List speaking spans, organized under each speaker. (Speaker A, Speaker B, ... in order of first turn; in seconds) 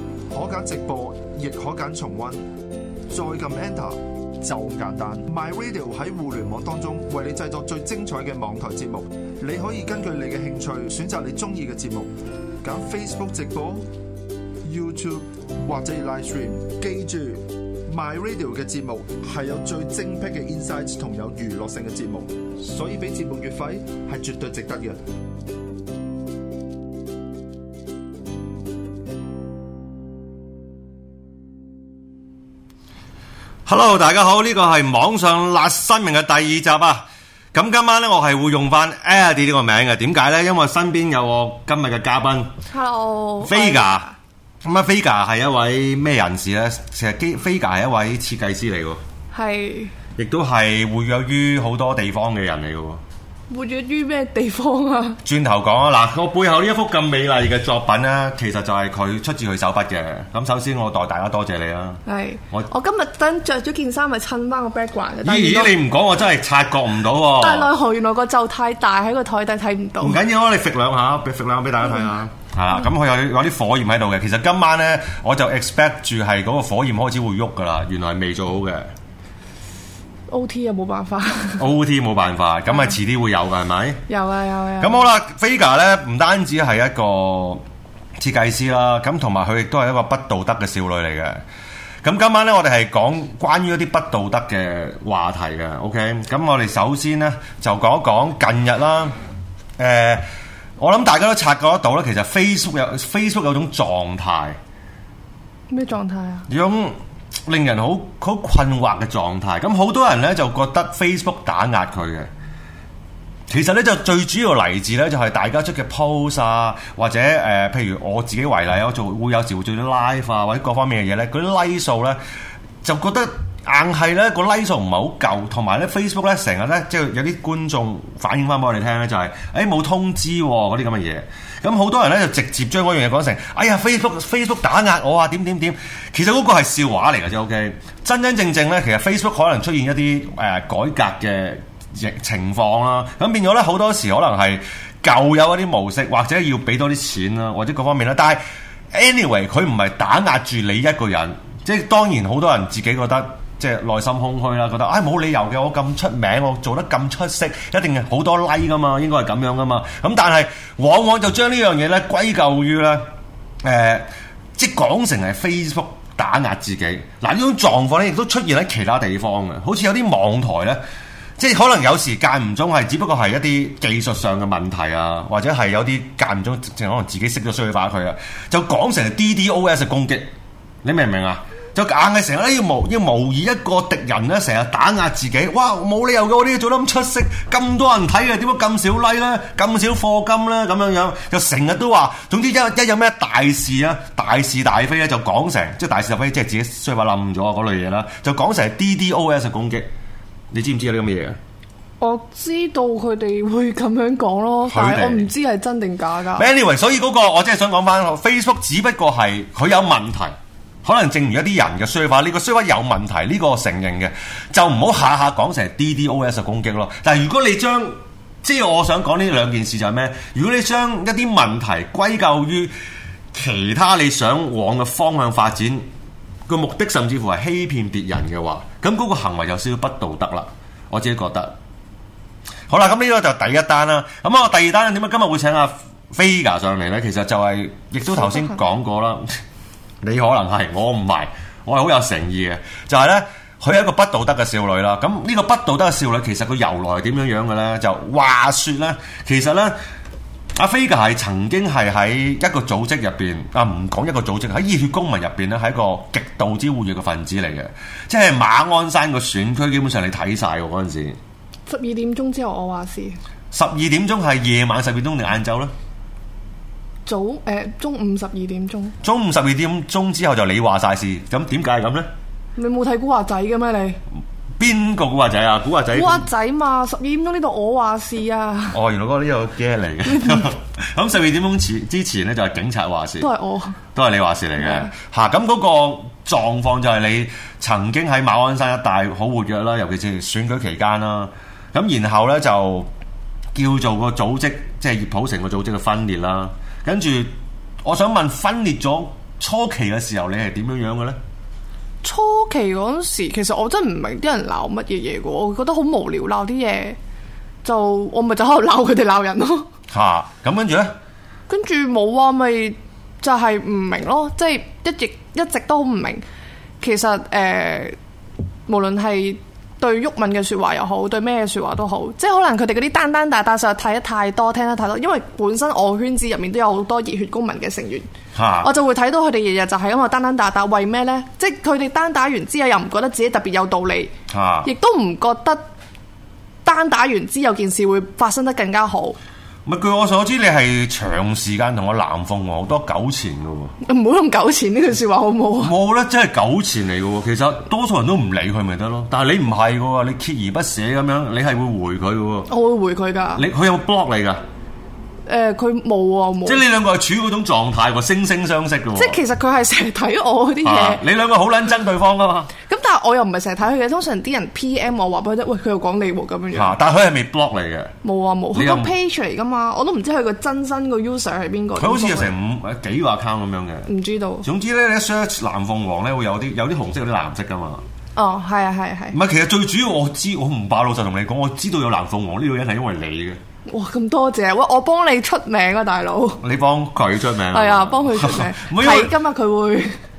Speaker A: 0.3-2.4, 3.1-13.8, 14.6-25.0
Speaker B: 33.6-42.5, 43.4-44.0, 44.6-49.0, 50.1-53.0, 55.2-62.0, 65.2-67.7, 70.0-78.9, 81.6-84.0, 84.8-87.6, 88.2-91.4, 92.0-99.1, 99.8-100.2, 100.8-104.6, 106.5-112.3, 113.5-122.2, 122.8-148.4, 148.9-163.0, 163.6-170.8, 171.4-180.3, 180.8-199.9, 200.5-201.4, 204.7-205.3, 206.3-222.7, 223.3-225.8, 226.5-231.5, 232.7-239.3, 240.0-249.8, 250.5-261.2, 263.5-265.7, 269.0-272.1, 274.6-276.2, 278.7-283.3, 283.9-292.9, 293.5-301.2, 309.9-310.9, 328.3-328.7, 334.3-334.7, 339.6-343.7, 345.6-352.5, 353.3-354.4, 356.4-359.2, 360.6-362.5, 366.5-367.9, 368.5-368.9, 371.8-373.9, 374.4-377.8, 379.1-383.4, 386.4-389.1
Speaker C: 42.7-44.1, 49.3-49.9, 53.5-55.2, 62.0-65.8, 67.3-70.2, 80.3-81.7, 82.7-82.9, 84.1-85.1, 105.7-106.5, 202.0-206.5, 238.2-238.6, 261.7-263.2, 267.1-268.9, 272.6-274.0, 275.9-278.8, 280.1-280.4, 283.2-283.8, 284.6-284.9, 302.0-307.0, 307.6-309.7, 311.5-316.2, 316.8-317.9, 318.7-328.1, 328.6-334.1, 334.6-335.6, 336.6-339.1, 343.8-345.7, 352.5-353.4, 355.2-356.6, 358.9-361.0, 362.7-366.7, 368.0-372.3, 373.9-374.4, 378.1-379.2, 383.7-386.4, 387.5-390.0